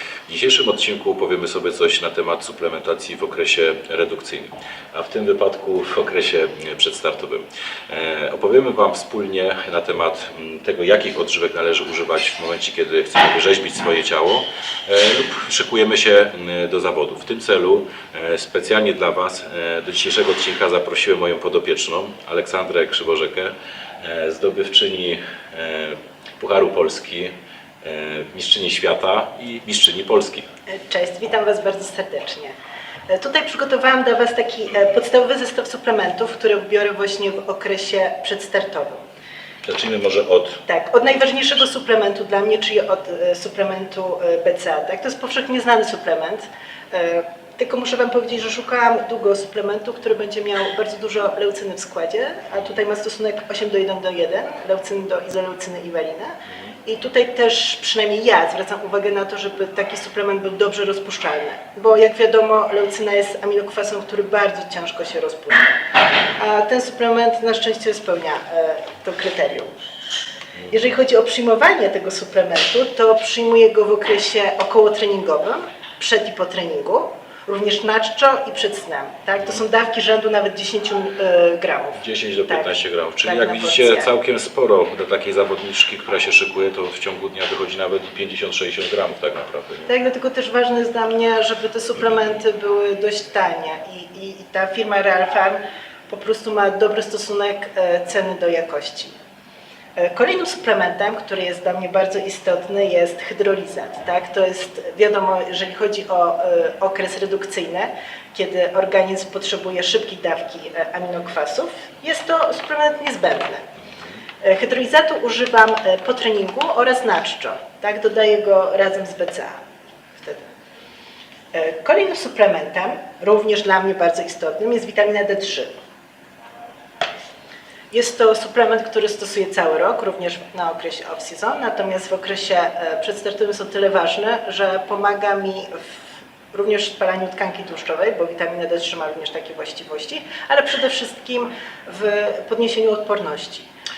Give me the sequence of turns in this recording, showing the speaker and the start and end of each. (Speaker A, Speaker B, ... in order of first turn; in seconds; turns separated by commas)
Speaker A: 0.3-30.4, Speaker B: 30.7-32.5, Speaker B: 33.1-39.0, Speaker A: 39.6-40.6, Speaker B: 40.7-65.8, Speaker B: 66.3-69.7, Speaker B: 70.7-84.1, Speaker A: 82.0-89.9, Speaker B: 89.9-99.1, Speaker B: 100.0-113.7, Speaker B: 114.4-119.6, Speaker B: 120.1-120.5, Speaker B: 121.5-125.7, Speaker B: 127.9-136.0, Speaker B: 136.5-143.7